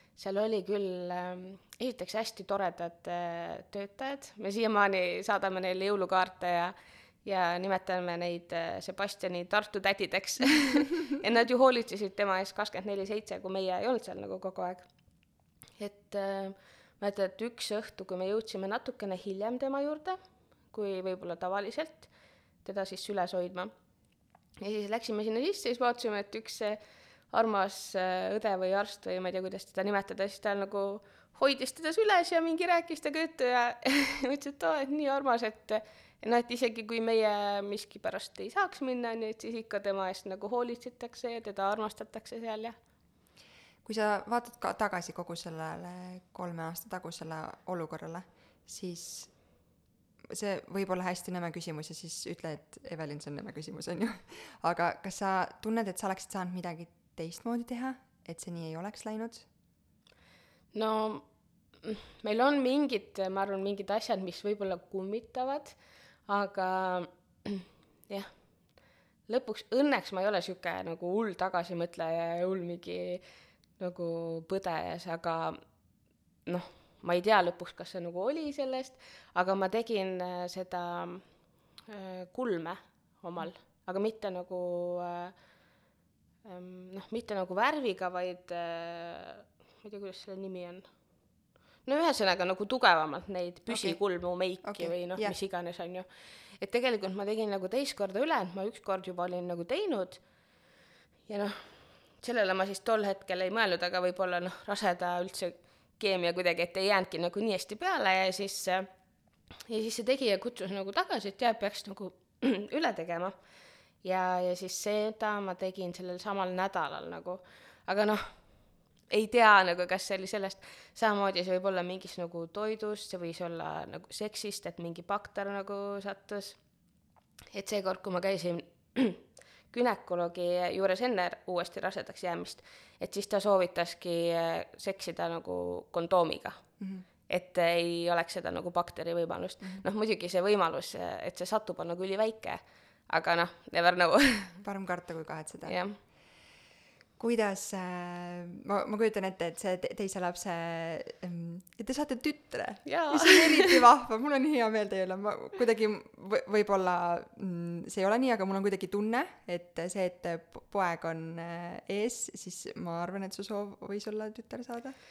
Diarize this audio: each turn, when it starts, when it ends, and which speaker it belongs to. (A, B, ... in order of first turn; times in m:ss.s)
0:00.2-0:06.7 A
0:07.2-0:14.9 A
0:15.8-0:20.2 A
0:20.7-0:22.1 A
0:22.6-0:23.7 A
0:24.6-0:26.8 A
0:27.3-0:42.8 A
0:43.8-0:49.3 B
0:50.3-0:59.5 B
1:00.7-1:01.2 A
1:01.8-1:08.3 A
1:09.3-1:13.2 A
1:13.8-1:15.6 A
1:16.5-1:21.3 A
1:21.9-1:25.3 A
1:26.4-1:30.8 A
1:31.8-1:36.0 A
1:33.7-1:34.0 B
1:34.6-1:35.4 B
1:36.6-1:40.2 A
1:41.3-1:48.9 A
1:49.7-1:53.4 A
1:54.0-1:58.4 A
1:59.1-2:06.6 A
2:07.5-2:16.6 A
2:17.3-2:22.6 A
2:23.1-2:24.6 A
2:24.6-2:25.8 B
2:25.6-2:26.0 A
2:27.2-2:45.0 B
2:32.9-2:33.8 A